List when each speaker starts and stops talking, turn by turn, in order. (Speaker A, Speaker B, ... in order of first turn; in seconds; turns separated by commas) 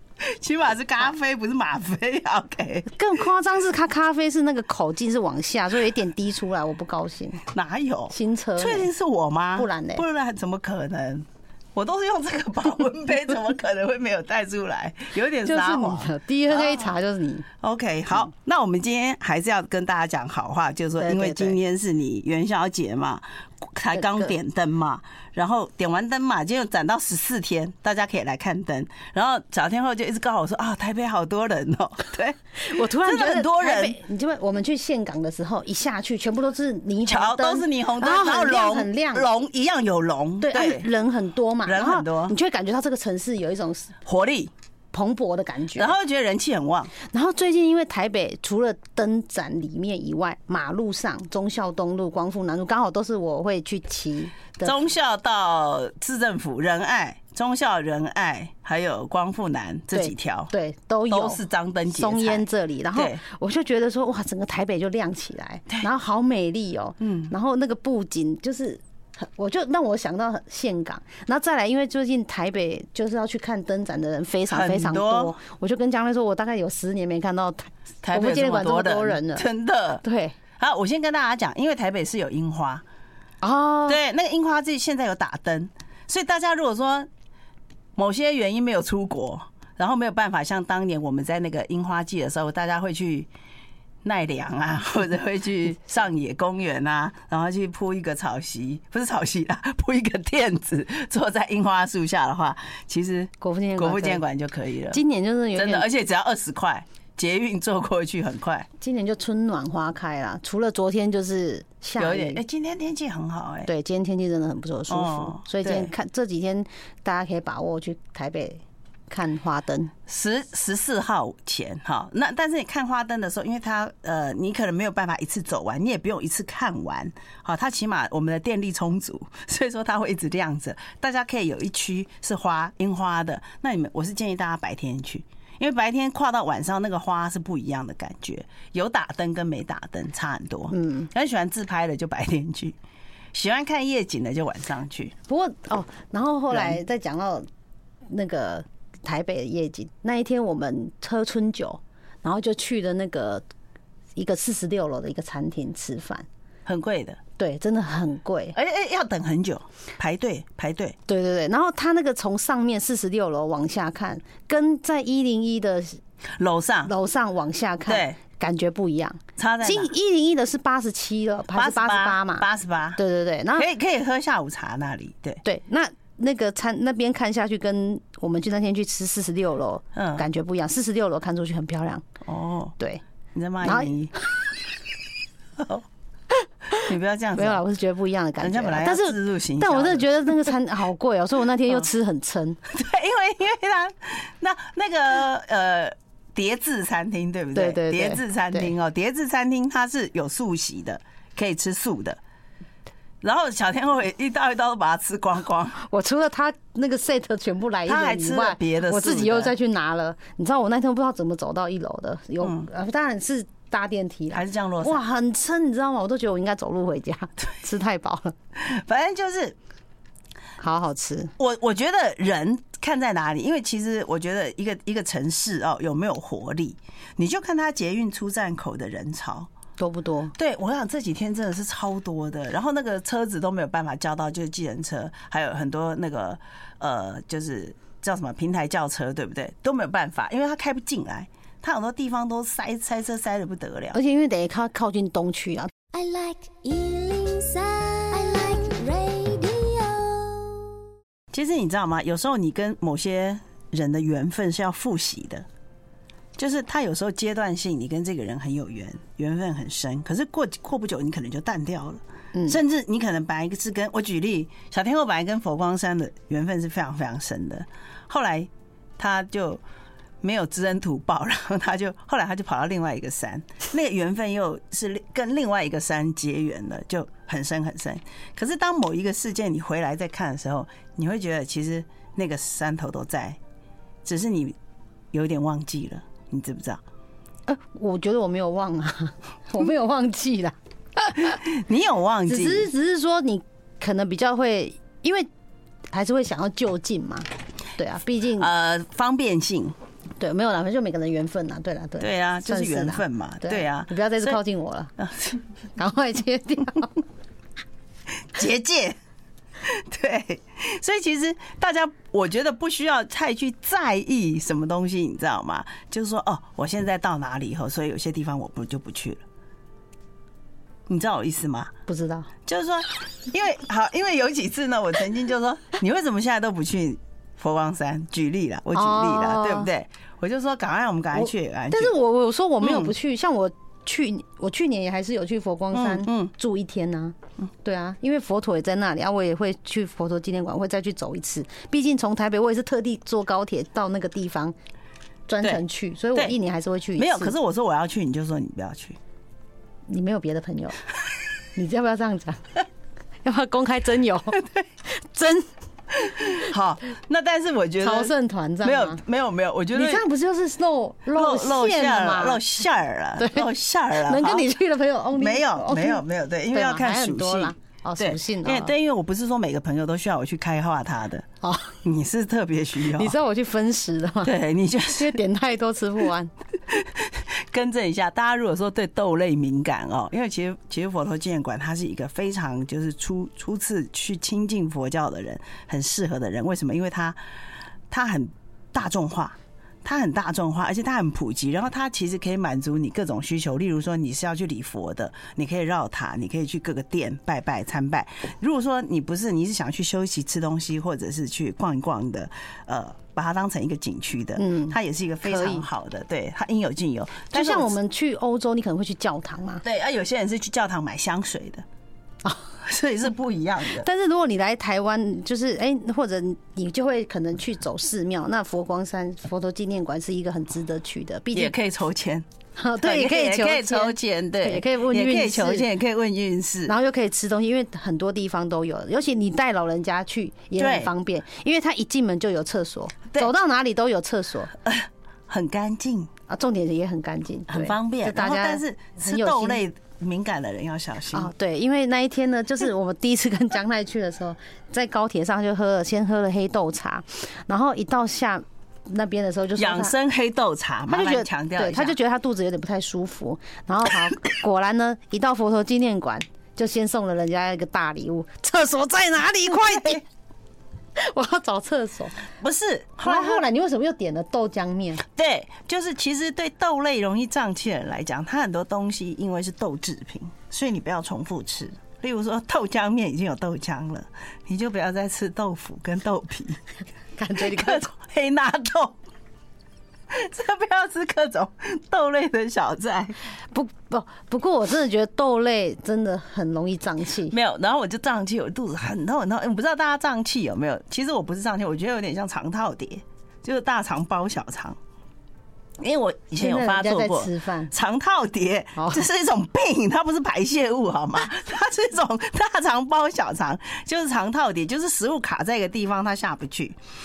Speaker A: 0.2-3.0, Speaker B: 3.0-7.4, Speaker A: 7.5-16.9, Speaker B: 8.1-8.9, Speaker B: 9.6-10.0, Speaker B: 15.5-17.5, Speaker A: 17.6-34.0, Speaker B: 21.0-21.6, Speaker B: 23.9-24.4, Speaker B: 32.6-39.3, Speaker A: 37.1-40.9, Speaker B: 40.4-44.0, Speaker A: 41.6-42.4, Speaker A: 44.0-44.5, Speaker B: 44.9-46.0, Speaker A: 45.8-46.9, Speaker B: 47.0-54.8, Speaker A: 54.6-60.5, Speaker B: 59.9-79.5, Speaker A: 61.1-63.2, Speaker A: 67.0-67.3, Speaker A: 74.5-75.3, Speaker A: 78.0-80.0, Speaker B: 80.0-80.4, Speaker A: 80.6-82.8, Speaker B: 83.4-84.0, Speaker A: 83.9-87.1, Speaker A: 88.0-93.3, Speaker A: 94.0-105.0, Speaker B: 103.4-104.2, Speaker B: 104.9-105.9, Speaker A: 105.6-108.7, Speaker B: 108.8-112.4, Speaker A: 112.0-113.7, Speaker B: 113.7-119.9, Speaker A: 114.9-115.9, Speaker A: 120.1-142.8, Speaker B: 140.7-141.1, Speaker A: 143.3-145.1, Speaker B: 145.3-147.5, Speaker A: 146.5-146.8, Speaker B: 148.1-153.4, Speaker B: 154.2-156.3, Speaker A: 156.7-157.2, Speaker B: 157.4-158.6, Speaker A: 158.5-161.0, Speaker B: 161.1-166.0, Speaker A: 166.4-166.9, Speaker B: 166.9-173.7, Speaker A: 167.9-168.2, Speaker A: 169.4-169.9, Speaker A: 171.5-173.0, Speaker A: 173.6-175.4, Speaker B: 175.4-182.1, Speaker A: 179.9-180.2, Speaker A: 182.2-182.8, Speaker A: 183.3-184.2, Speaker B: 183.6-183.9, Speaker A: 185.6-185.9, Speaker A: 186.7-187.6, Speaker B: 187.4-192.6, Speaker A: 188.4-190.1, Speaker A: 192.7-202.2, Speaker B: 197.6-198.7, Speaker A: 203.2-205.8, Speaker B: 205.8-218.3, Speaker A: 207.9-209.5, Speaker A: 214.3-215.0, Speaker A: 218.6-219.6, Speaker B: 220.6-221.3, Speaker A: 221.4-229.5, Speaker B: 229.8-230.3, Speaker A: 230.3-244.0, Speaker B: 243.9-245.7, Speaker C: 245.9-250.7, Speaker A: 251.3-255.5, Speaker A: 256.4-269.6, Speaker B: 262.3-262.6, Speaker A: 270.2-283.4, Speaker A: 284.0-284.6, Speaker A: 285.1-286.8, Speaker B: 287.5-291.4, Speaker A: 291.2-292.7, Speaker B: 292.3-295.3, Speaker B: 295.9-298.5, Speaker A: 298.4-299.8, Speaker B: 300.2-304.9, Speaker A: 302.0-304.4, Speaker A: 305.0-305.4, Speaker B: 305.8-307.0, Speaker A: 308.2-309.0, Speaker A: 309.6-319.2, Speaker A: 320.9-321.7, Speaker B: 321.9-322.3, Speaker A: 322.5-331.9, Speaker B: 328.7-329.7, Speaker B: 331.1-344.6, Speaker A: 332.6-332.9, Speaker A: 335.7-336.3, Speaker B: 345.3-347.4, Speaker A: 347.0-349.0, Speaker B: 349.9-350.8, Speaker B: 351.6-352.4, Speaker B: 353.2-355.5, Speaker A: 354.4-354.6, Speaker A: 355.9-358.1, Speaker B: 357.8-359.0, Speaker A: 358.6-360.1, Speaker B: 359.7-362.4, Speaker A: 361.1-364.5, Speaker B: 363.2-368.7, Speaker A: 365.1-371.3, Speaker B: 371.4-371.8, Speaker A: 371.8-373.1, Speaker B: 372.9-374.4, Speaker A: 374.2-375.2, Speaker B: 374.9-376.3, Speaker A: 376.7-387.2, Speaker A: 387.9-407.8, Speaker B: 404.4-405.6, Speaker B: 407.3-409.6, Speaker A: 409.6-411.6, Speaker A: 412.6-413.9, Speaker B: 413.8-421.6, Speaker A: 421.3-422.3, Speaker B: 422.6-425.7, Speaker A: 422.8-426.8, Speaker B: 426.7-434.5, Speaker A: 430.6-430.9, Speaker A: 434.6-436.1, Speaker B: 436.3-439.6, Speaker A: 437.5-441.3, Speaker B: 441.1-449.9, Speaker A: 449.6-452.0, Speaker B: 450.9-460.0, Speaker A: 459.5-460.0, Speaker B: 461.0-462.2, Speaker A: 462.4-463.5, Speaker B: 463.0-465.0, Speaker A: 465.1-476.6, Speaker B: 477.2-477.9, Speaker A: 477.4-479.0, Speaker A: 480.1-483.2, Speaker B: 483.5-487.3, Speaker A: 487.3-494.8, Speaker A: 495.8-506.8, Speaker B: 496.4-497.7, Speaker B: 498.8-499.1